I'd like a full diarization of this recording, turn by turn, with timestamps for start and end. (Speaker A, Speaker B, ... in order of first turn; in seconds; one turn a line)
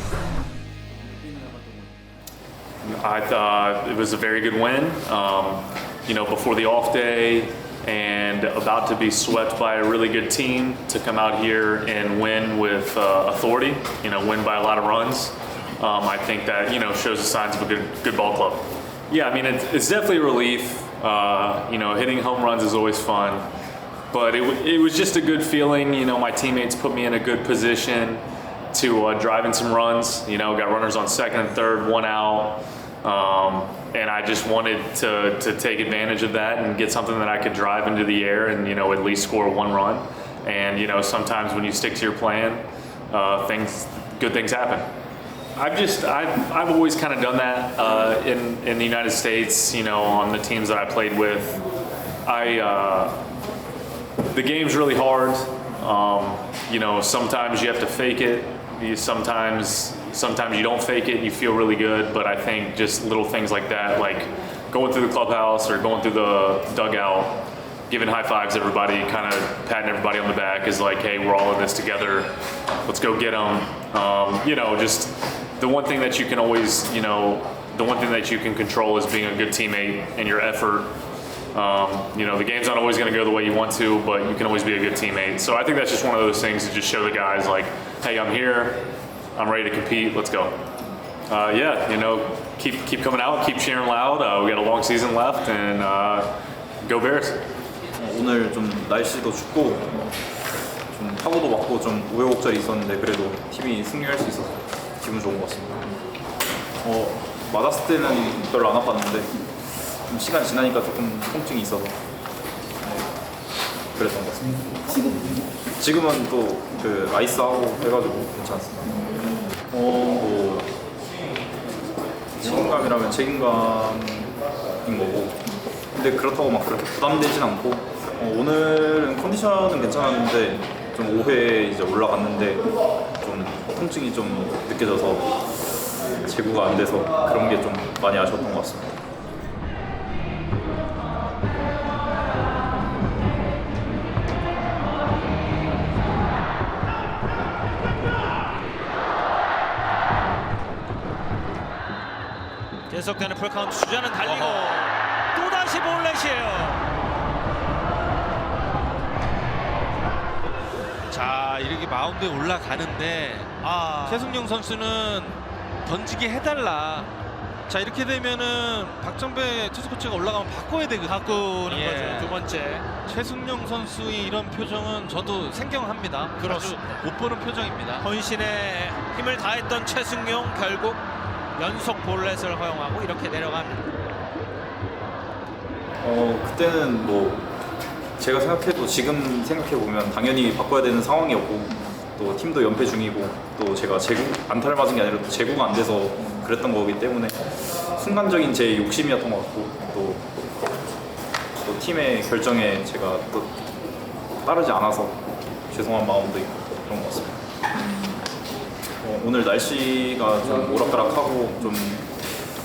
Speaker A: 2.8-23.5
Speaker A: 24.1-44.9
Speaker A: 45.5-51.6
Speaker A: 52.2-53.2
Speaker A: 54.3-72.3
Speaker A: 72.8-80.9
Speaker A: 81.5-88.8
Speaker A: 89.3-90.5
Speaker A: 91.3-96.3
Speaker A: 96.8-97.4
Speaker B: 98.0-100.1
Speaker B: 100.9-105.8
Speaker B: 106.8-109.3
Speaker B: 109.9-112.0
Speaker B: 113.9-115.1
Speaker B: 115.7-119.0
Speaker B: 119.7-120.7
Speaker B: 122.3-135.5
Speaker B: 136.2-139.0
Speaker C: 152.9-156.8
Speaker D: 154.2-154.8
Speaker D: 161.1-163.5
Speaker C: 163.6-164.4
Speaker D: 164.0-167.1
Speaker D: 167.7-172.4
Speaker C: 171.0-172.9
Speaker D: 173.1-178.0
Speaker C: 176.4-177.0
Speaker C: 178.0-181.0
Speaker C: 181.6-183.9
Speaker B: 186.0-187.5
Speaker B: 188.2-200.3
Speaker B: 201.6-203.6
Speaker B: 204.4-207.4
Speaker B: 209.0-212.1